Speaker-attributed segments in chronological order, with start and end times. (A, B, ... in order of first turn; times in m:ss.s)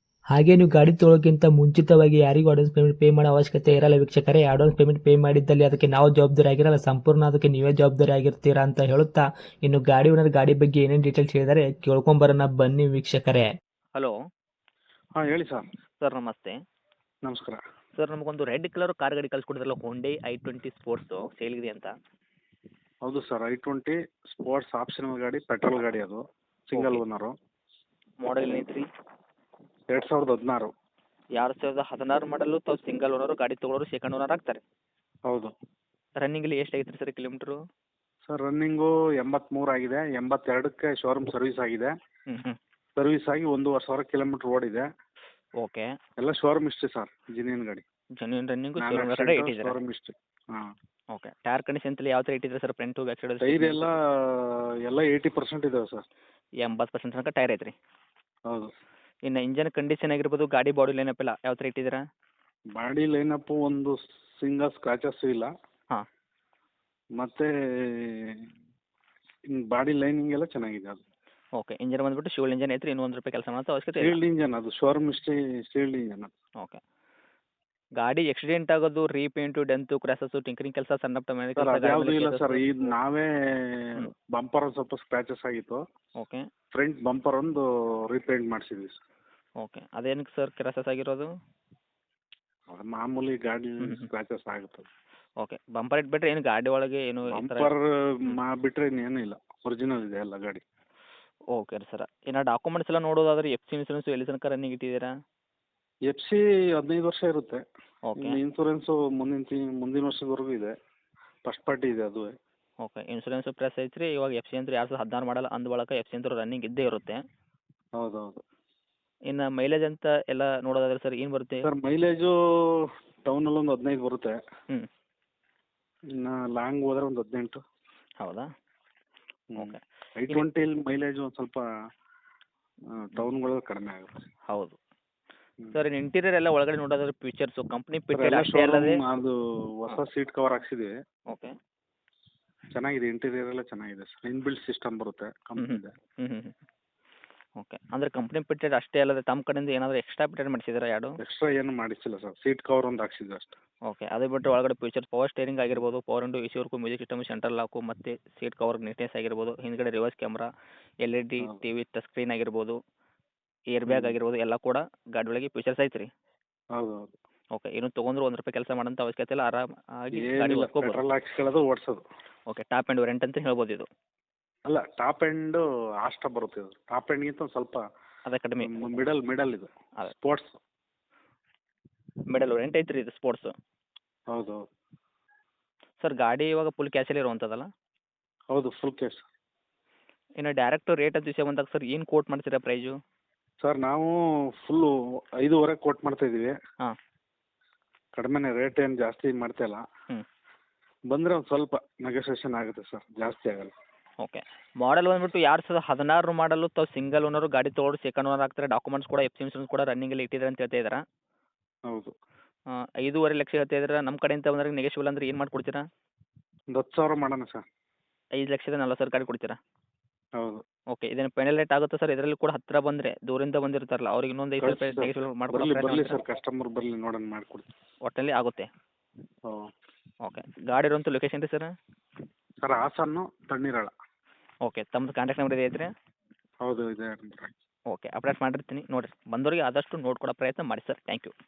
0:00.3-0:13.5 A
0:15.2-0:15.6 B
0:16.0-0:16.6 C
0:17.2-0:17.6 B
0:18.0-0:21.9 C
0:23.0-0:27.3 B
0:26.8-0:27.0 C
0:28.2-0:28.8 C
0:29.9-0:30.7 B
0:31.4-0:34.6 C
0:36.2-0:37.6 C
0:38.3-0:41.9 B
0:42.3-0:42.6 C
0:43.0-0:44.9 B
0:45.6-0:45.9 C
0:46.2-0:47.8 B
0:48.2-0:49.8 C
0:48.8-0:50.7 B
0:51.1-0:53.9 C
0:53.4-0:56.0 B
0:56.6-0:57.7 C
0:59.3-1:02.0 C
1:02.8-1:05.5 B
1:07.2-1:08.4 B
1:09.5-1:11.0 B
1:11.6-1:14.2 C
1:14.0-1:16.3 B
1:18.0-1:22.6 C
1:21.6-1:25.8 B
1:26.2-1:26.4 C
1:26.7-1:29.0 B
1:29.6-1:31.3 C
1:32.7-1:34.9 B
1:33.8-1:34.1 C
1:35.4-1:37.7 C
1:37.3-1:40.6 B
1:41.5-1:45.1 C
1:46.1-1:47.6 B
1:48.1-1:48.4 C
1:48.2-1:50.7 B
1:51.5-1:52.3 B
1:52.8-1:57.2 C
1:58.0-1:58.4 B
1:59.3-2:01.7 C
2:01.6-2:04.4 B
2:06.2-2:07.6 B
2:08.2-2:08.5 C
2:09.5-2:11.6 B
2:09.6-2:10.4 C
2:12.9-2:14.2 B
2:14.5-2:14.8 C
2:15.7-2:19.0 C
2:18.1-2:20.9 B
2:22.7-2:25.9 B
2:25.6-2:26.6 C
2:27.6-2:31.1 C
2:31.2-2:33.6 B
2:33.9-2:40.5 C
2:41.0-2:42.8 C
2:43.7-2:46.1 C
2:43.9-2:44.2 B
2:46.8-2:47.2 B
2:47.6-2:51.0 C
2:50.2-2:52.0 B
2:52.5-2:53.9 C
2:54.7-2:57.8 B
2:58.3-2:59.0 C
2:58.6-3:00.6 B
3:02.3-3:03.5 C
3:04.3-3:04.6 B
3:06.0-3:07.7 C
3:08.5-3:09.3 B
3:10.4-3:12.9 C
3:13.6-3:16.5 B
3:18.2-3:19.8 B
3:21.1-3:23.7 B
3:24.2-3:31.0 C
3:31.9-3:32.1 B
3:33.0-3:35.8 C
3:36.7-3:37.6 B
3:38.4-3:39.6 C
3:40.9-3:46.2 C
3:44.6-3:47.7 B
3:48.0-3:48.7 C
3:50.2-3:51.7 C
3:52.6-3:53.9 B
3:54.6-3:55.9 C
3:56.6-3:57.5 B
3:57.9-4:01.3 C